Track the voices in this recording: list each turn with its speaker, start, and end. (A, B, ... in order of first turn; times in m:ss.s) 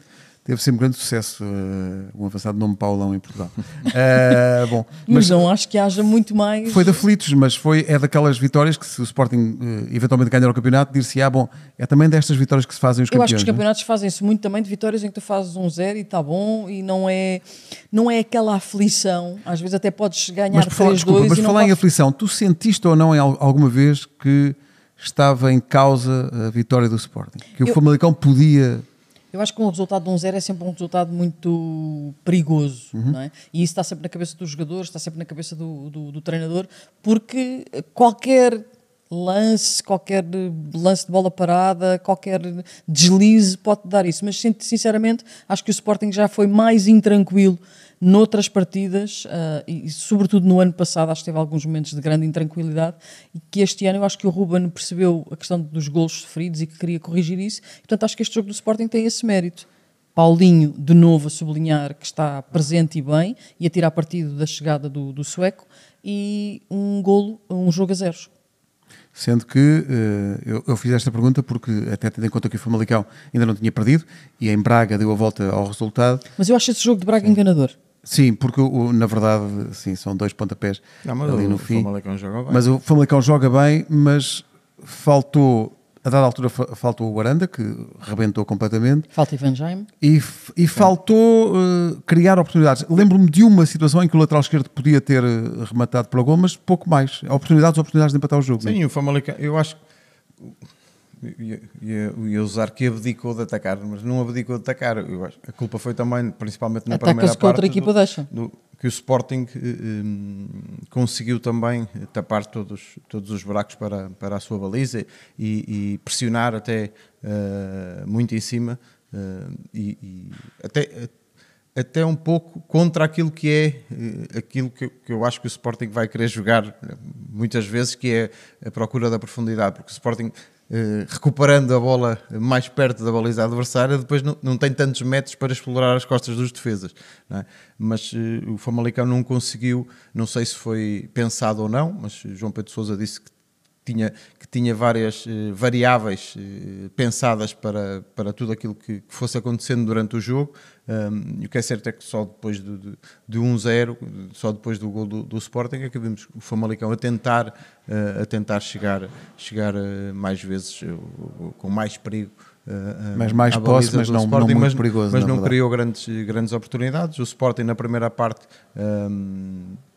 0:00.4-0:05.5 A
0:05.1-0:07.0 B
0:06.7-0:13.6 A
0:13.1-0:21.8 B
0:20.5-0:28.8 A
0:29.3-1:08.3 B
1:09.1-1:16.2 A
1:16.4-1:17.7 B
1:18.0-1:21.9 A
1:21.0-1:22.6 C
1:22.5-1:29.1 A
1:29.1-1:29.9 B
1:30.0-1:38.8 A
1:38.6-1:39.8 C
1:41.2-2:01.1 C
1:46.9-1:48.3 B
2:01.7-2:23.3 C
2:23.8-2:49.8 C
2:43.2-2:45.5 A